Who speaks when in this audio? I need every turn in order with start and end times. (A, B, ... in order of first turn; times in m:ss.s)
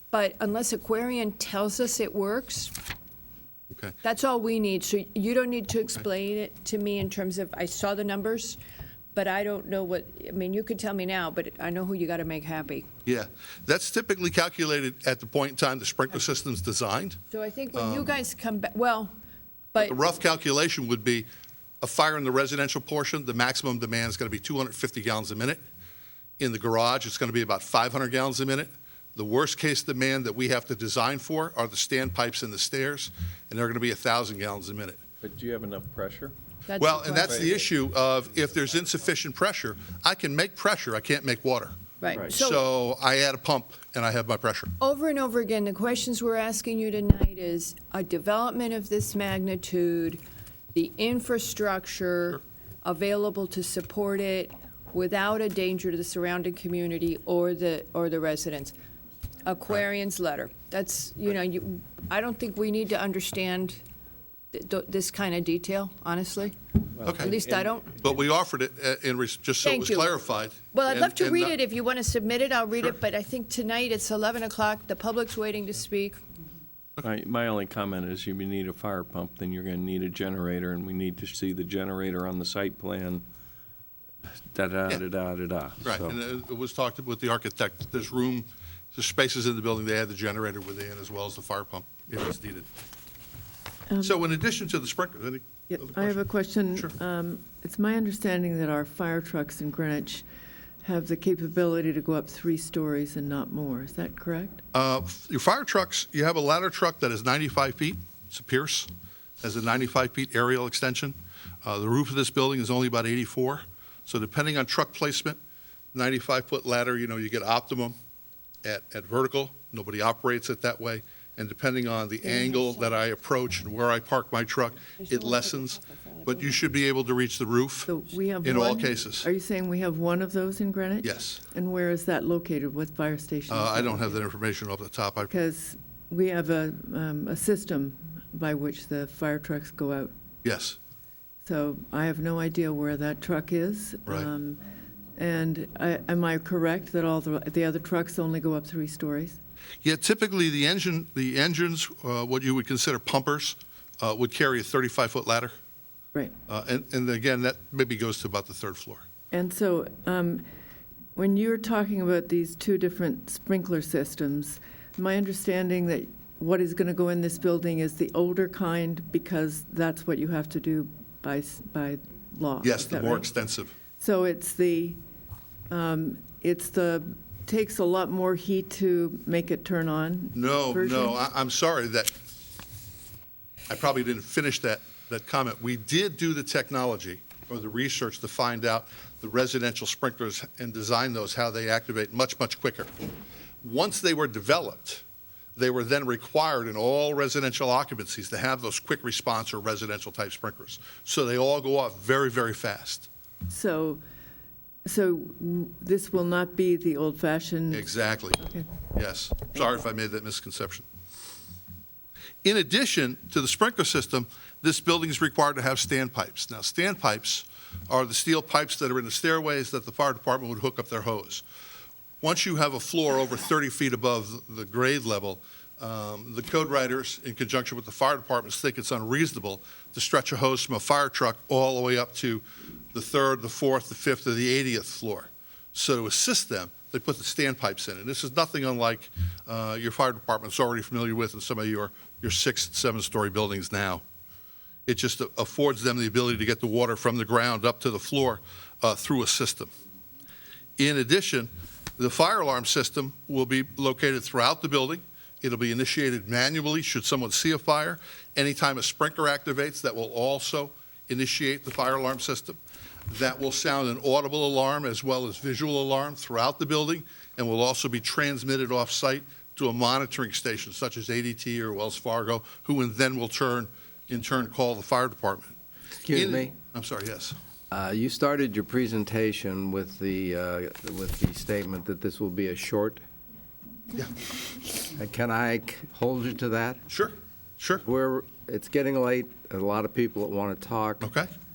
0:00.1-0:02.8 A
0:04.0-0:08.6 A
0:09.2-0:12.9 A
0:13.1-0:17.2 B
0:17.3-0:19.1 A
0:17.7-0:18.2 B
0:19.8-0:21.3 B
0:21.8-0:25.6 B
0:26.4-0:35.0 B
0:35.2-0:36.3 C
0:36.7-0:37.5 A
0:36.8-0:41.8 B
0:37.2-0:37.6 C
0:42.0-0:42.6 A
0:42.3-0:44.7 B
0:44.8-0:50.2 A
0:50.7-0:58.7 A
0:59.4-1:03.8 A
1:04.5-1:08.0 A
1:07.0-1:07.7 C
1:08.0-1:11.6 B
1:09.6-1:10.1 A
1:10.7-1:16.2 A
1:17.0-1:23.2 C
1:24.2-1:26.1 C
1:25.8-1:32.7 B
1:33.9-1:34.3 D
1:34.0-1:36.2 B
1:35.7-1:40.2 D
1:40.8-1:44.6 D
1:44.7-1:48.9 B
1:49.4-1:55.4 B
1:55.9-1:58.0 B
1:58.6-2:07.9 B
2:02.2-2:02.9 A
2:05.0-2:06.4 A
2:07.9-2:14.2 D
2:08.4-2:09.3 B
2:11.0-2:11.5 B
2:13.5-2:15.3 B
2:15.2-2:20.1 D
2:20.4-2:20.8 B
2:21.4-2:24.6 D
2:25.2-2:29.4 D
2:29.8-2:35.6 B
2:36.5-2:39.1 B
2:39.3-2:40.4 D
2:41.2-2:53.3 D
2:52.6-2:53.8 B
2:54.0-2:55.0 D
2:55.7-3:01.2 D
3:00.3-3:02.1 B
3:03.7-3:12.9 B
3:13.6-3:15.0 B
3:15.6-3:23.1 B
3:23.5-3:24.0 D
3:24.8-3:28.8 D
3:27.7-3:30.9 B
3:32.4-3:41.4 B
3:42.2-4:04.0 B
4:04.9-4:09.7 B
4:10.8-4:35.6 B
4:36.0-4:36.5 E
4:36.1-4:37.4 B
4:37.7-4:43.0 E
4:44.8-4:46.8 E
4:46.9-4:47.8 B
4:47.8-4:51.1 E
4:51.0-4:51.3 B